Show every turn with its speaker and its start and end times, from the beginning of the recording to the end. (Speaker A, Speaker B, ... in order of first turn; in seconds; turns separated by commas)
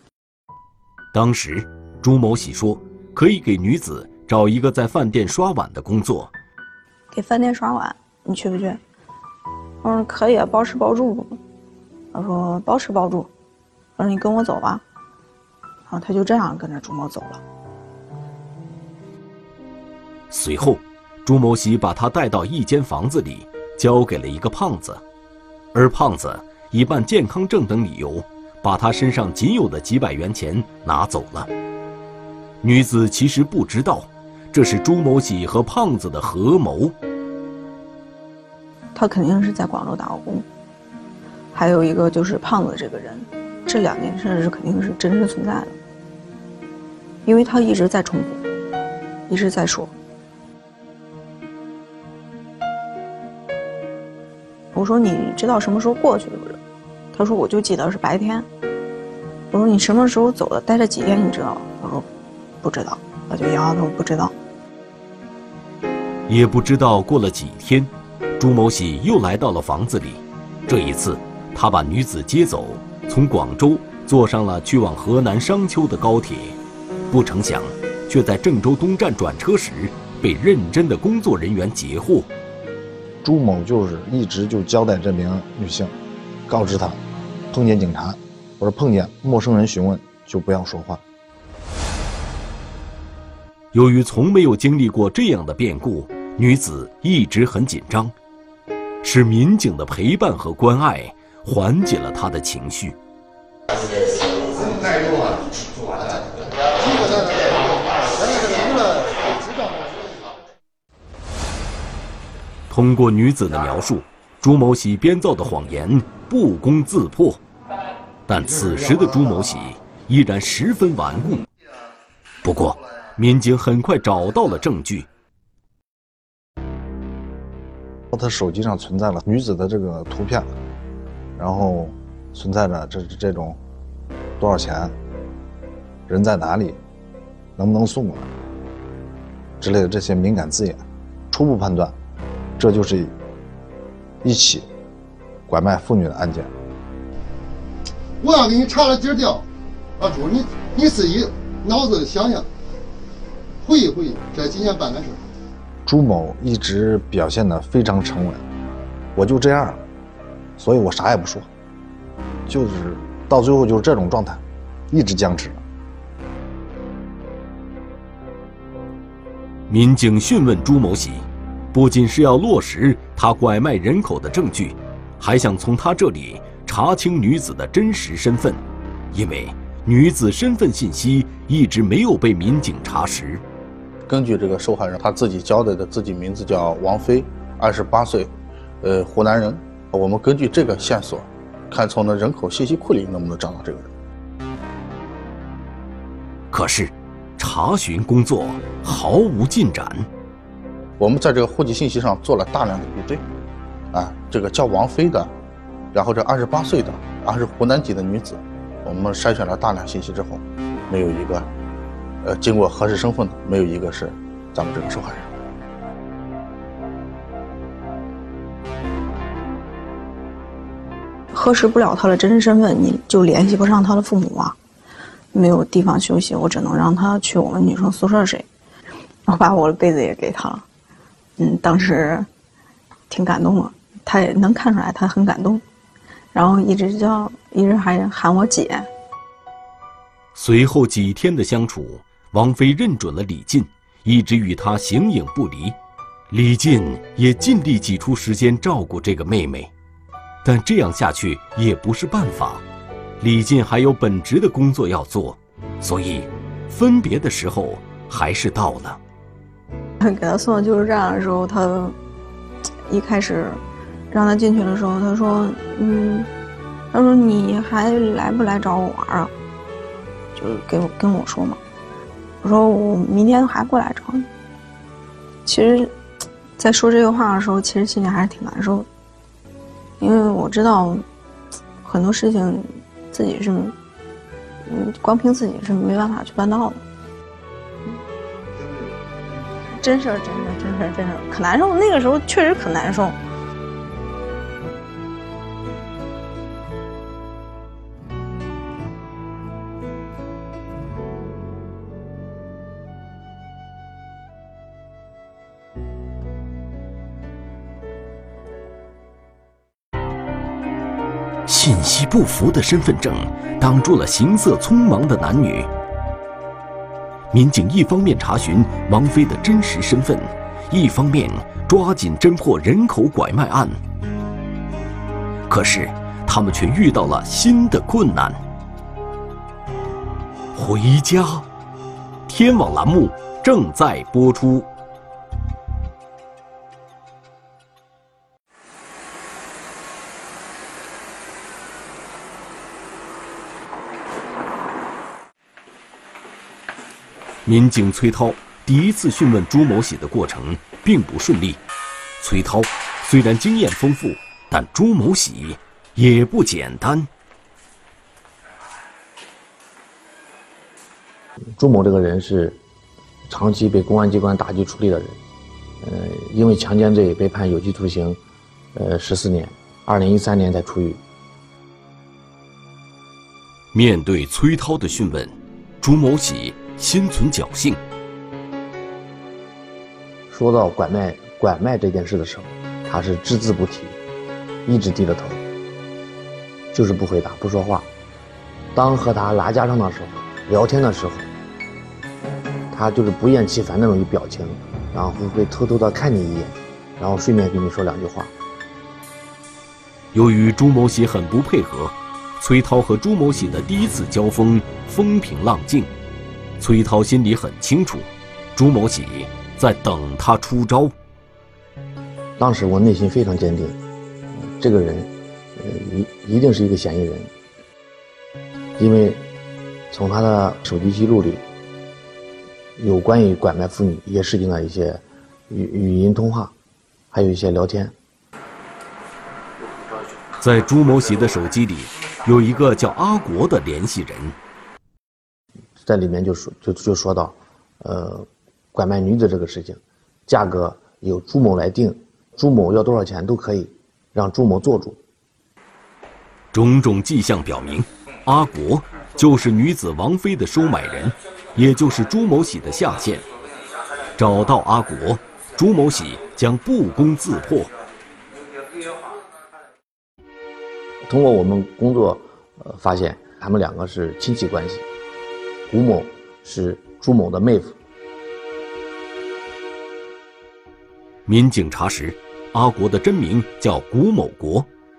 Speaker A: 1.1-6.3, Speaker B: 7.1-8.8, Speaker B: 9.8-11.4, Speaker B: 12.1-13.3, Speaker B: 14.0-14.8, Speaker B: 15.9-17.4, Speaker A: 20.3-25.0, Speaker A: 25.7-31.5, Speaker A: 32.6-36.9, Speaker B: 38.9-40.4, Speaker B: 41.5-45.7, Speaker B: 47.2-48.4, Speaker B: 49.3-49.9, Speaker B: 54.7-56.6, Speaker B: 57.1-58.5, Speaker B: 59.5-62.0, Speaker B: 62.6-64.3, Speaker A: 66.3-76.6, Speaker A: 77.1-82.3, Speaker C: 83.2-85.9, Speaker C: 86.5-91.0, Speaker A: 93.7-98.1, Speaker A: 99.0-103.0, Speaker D: 106.8-107.5, Speaker D: 108.2-109.8, Speaker A: 112.7-117.4, Speaker A: 118.3-121.4, Speaker A: 122.4-125.1, Speaker C: 128.1-130.5, Speaker C: 131.3-133.6, Speaker C: 134.4-134.9, Speaker C: 136.1-136.8, Speaker C: 137.6-138.3, Speaker C: 139.6-142.0, Speaker C: 142.6-143.1, Speaker C: 144.2-144.7, Speaker C: 145.5-146.5, Speaker D: 148.2-149.4, Speaker D: 150.0-152.5, Speaker D: 153.6-155.3, Speaker C: 155.8-158.4, Speaker C: 159.1-159.8, Speaker C: 160.6-161.5, Speaker C: 162.5-165.6, Speaker A: 169.7-178.6, Speaker A: 179.1-183.4, Speaker E: 184.1-193.9, Speaker A: 196.5-200.1, Speaker E: 201.0-203.2, Speaker E: 203.9-205.3, Speaker E: 205.9-211.5, Speaker E: 212.2-215.3, Speaker B: 221.3-224.6, Speaker B: 225.3-228.4, Speaker B: 229.3-230.6, Speaker B: 231.4-232.3, Speaker B: 233.1-235.6, Speaker B: 236.3-238.9, Speaker A: 240.3-245.8, Speaker A: 246.3-249.7, Speaker A: 250.4-252.6, Speaker A: 253.2-259.0, Speaker B: 260.0-261.9, Speaker B: 262.9-263.6, Speaker B: 264.1-266.3, Speaker B: 266.9-269.3, Speaker B: 270.4-271.6, Speaker B: 272.4-274.3, Speaker B: 275.4-275.9, Speaker B: 276.6-278.9, Speaker B: 280.0-281.0, Speaker B: 281.8-283.7, Speaker B: 284.6-286.8, Speaker B: 289.7-293.2, Speaker A: 311.4-315.7, Speaker A: 317.3-323.8, Speaker A: 325.5-328.4, Speaker A: 330.5-331.4, Speaker A: 332.3-334.7, Speaker A: 347.4-351.6, Speaker A: 352.2-357.1, Speaker F: 361.6-362.6, Speaker F: 363.3-365.2, Speaker F: 365.8-368.2, Speaker F: 368.7-371.0, Speaker A: 373.7-377.8, Speaker F: 380.3-383.9, Speaker F: 384.6-385.4, Speaker F: 386.7-387.9, Speaker F: 388.7-391.3, Speaker F: 392.7-398.3, Speaker A: 400.1-405.9, Speaker A: 406.6-410.9, Speaker F: 412.4-413.8, Speaker F: 414.4-417.3, Speaker F: 418.8-419.2, Speaker F: 419.9-421.4, Speaker F: 422.8-426.5, Speaker F: 427.1-427.9, Speaker A: 430.4-434.4, Speaker F: 435.8-445.0, Speaker A: 446.5-453.2, Speaker A: 454.1-457.7, Speaker F: 461.1-464.8, Speaker F: 465.7-467.8, Speaker A: 471.2-474.7